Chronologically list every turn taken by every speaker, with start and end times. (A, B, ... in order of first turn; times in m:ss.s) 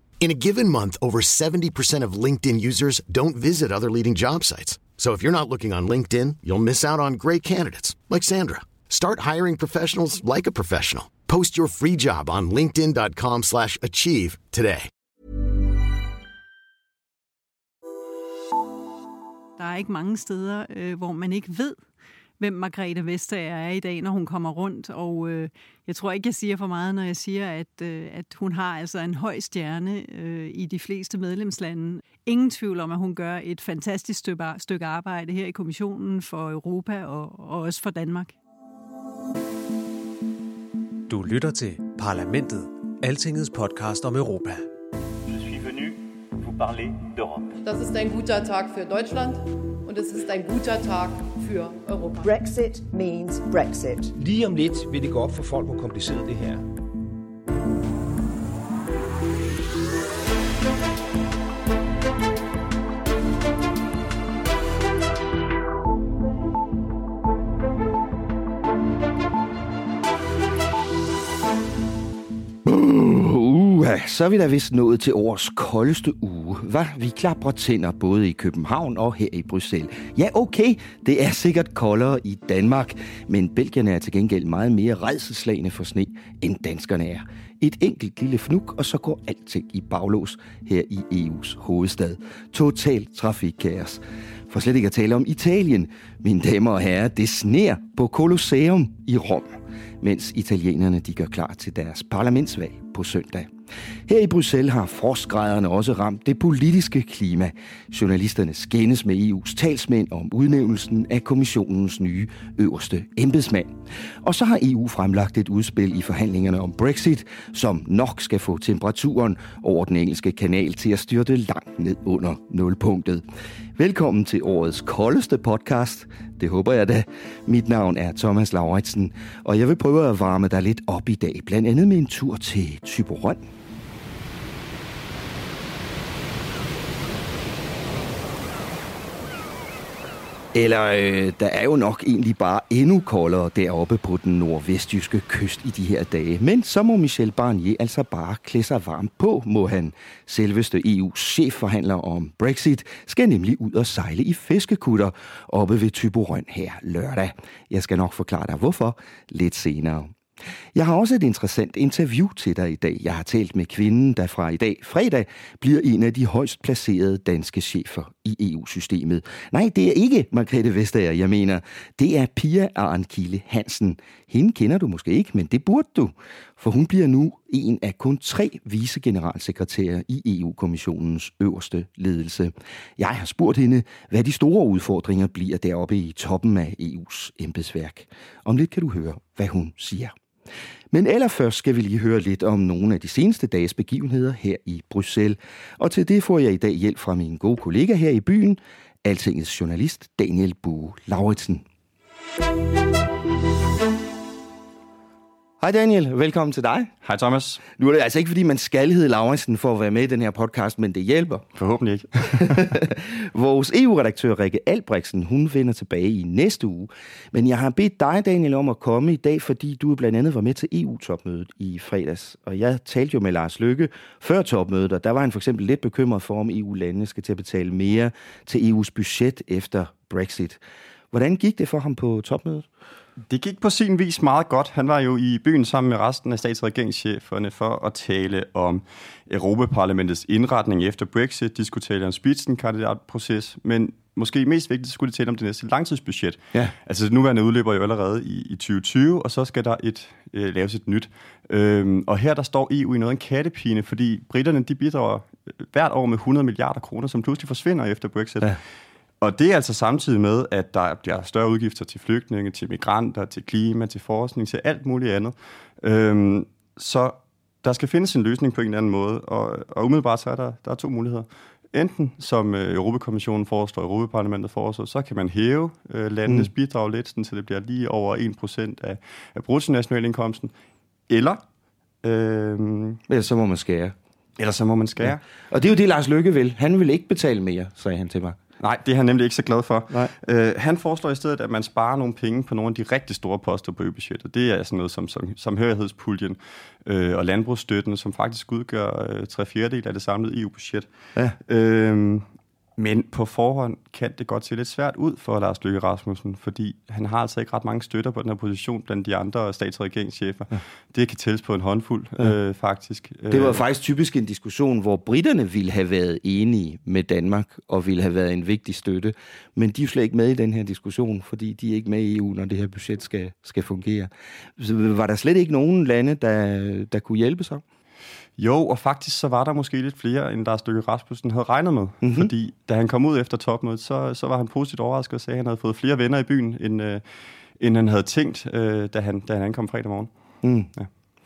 0:00.2-0:14.9 A
0:19.6-0:21.8 B
0:22.4-0:38.4 B
0:41.1-0:44.7 C
0:45.3-0:45.9 D
0:46.6-0:47.4 D
0:47.6-0:52.3 E
0:52.2-0:54.2 F
0:54.2-0:56.6 G
1:12.6-1:43.5 H
1:44.1-2:03.2 H
2:03.8-2:13.4 H
2:20.5-2:40.1 H
2:40.7-3:10.2 H
3:10.9-3:21.6 H
3:25.6-3:26.9 H
3:27.0-3:27.6 D
3:27.8-3:31.5 H
3:31.6-3:32.7 D
3:32.2-3:50.6 H
3:51.1-3:52.7 H
3:53.3-4:18.6 D
4:19.2-4:40.5 D
4:36.2-4:36.5 H
4:41.1-4:41.4 D
4:42.0-4:43.0 D
4:43.1-4:44.0 H
4:44.4-4:45.2 D
4:45.0-4:48.4 H
4:48.6-5:00.9 D
5:01.4-5:13.6 D
5:13.3-5:27.6 H
5:28.4-5:37.0 D
5:32.0-5:32.3 H
5:37.6-5:40.1 D
5:40.4-5:40.7 H